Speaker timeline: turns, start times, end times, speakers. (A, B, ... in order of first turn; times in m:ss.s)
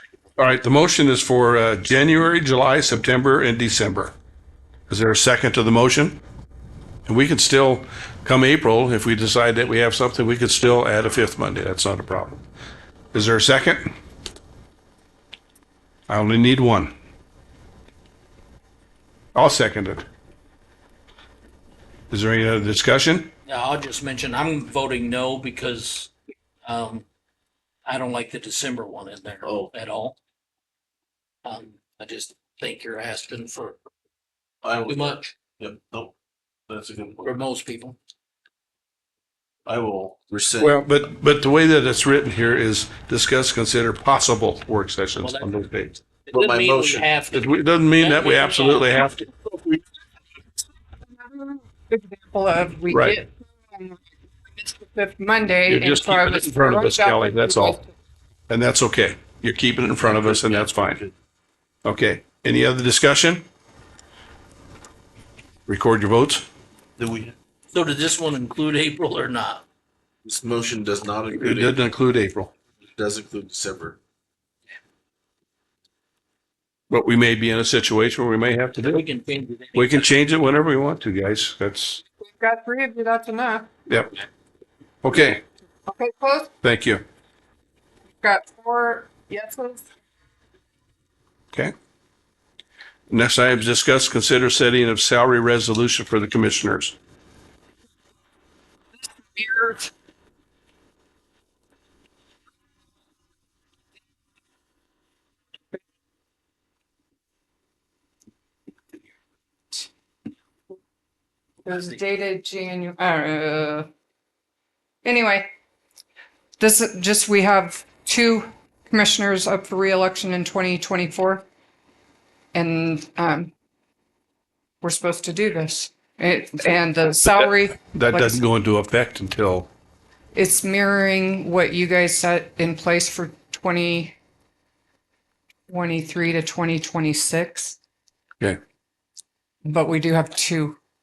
0:00.4-0:04.1 A
0:04.9-0:06.2 A
0:07.0-0:12.4 A
0:13.1-0:13.9 A
0:16.1-0:16.9 A
0:19.3-0:20.0 A
0:22.1-0:23.3 A
0:23.5-0:26.1 B
0:26.6-0:27.0 B
0:27.8-0:30.2 B
0:29.4-0:29.7 C
0:31.4-0:33.8 B
0:34.6-0:36.1 C
0:34.8-0:35.3 B
0:36.7-0:37.4 C
0:37.2-0:38.0 B
0:39.6-0:40.8 C
0:40.6-0:46.0 A
0:45.2-0:45.6 B
0:46.3-0:48.9 B
0:46.3-0:47.1 C
0:47.3-0:49.8 A
0:51.1-0:57.9 D
0:52.9-0:53.2 A
0:55.7-0:57.8 A
0:58.5-1:01.0 A
1:00.0-1:01.1 C
1:01.8-1:03.4 A
1:05.7-1:06.4 A
1:07.0-1:07.3 C
1:07.7-1:09.6 B
1:10.2-1:11.8 C
1:11.3-1:12.5 A
1:12.9-1:14.0 C
1:16.9-1:19.0 A
1:18.8-1:20.2 B
1:19.7-1:22.0 A
1:22.2-1:23.7 D
1:23.9-1:24.1 A
1:25.0-1:25.4 A
1:25.9-1:26.5 D
1:26.6-1:27.0 A
1:28.2-1:29.9 D
1:33.1-1:36.9 A
1:39.3-1:39.9 D
1:51.6-1:53.9 D
1:55.0-1:55.5 D
1:56.6-2:01.4 D
2:02.5-2:03.5 D
2:04.8-2:08.4 D
2:07.3-2:09.7 A
2:10.3-2:14.1 D
2:15.7-2:17.8 D
2:19.6-2:20.8 D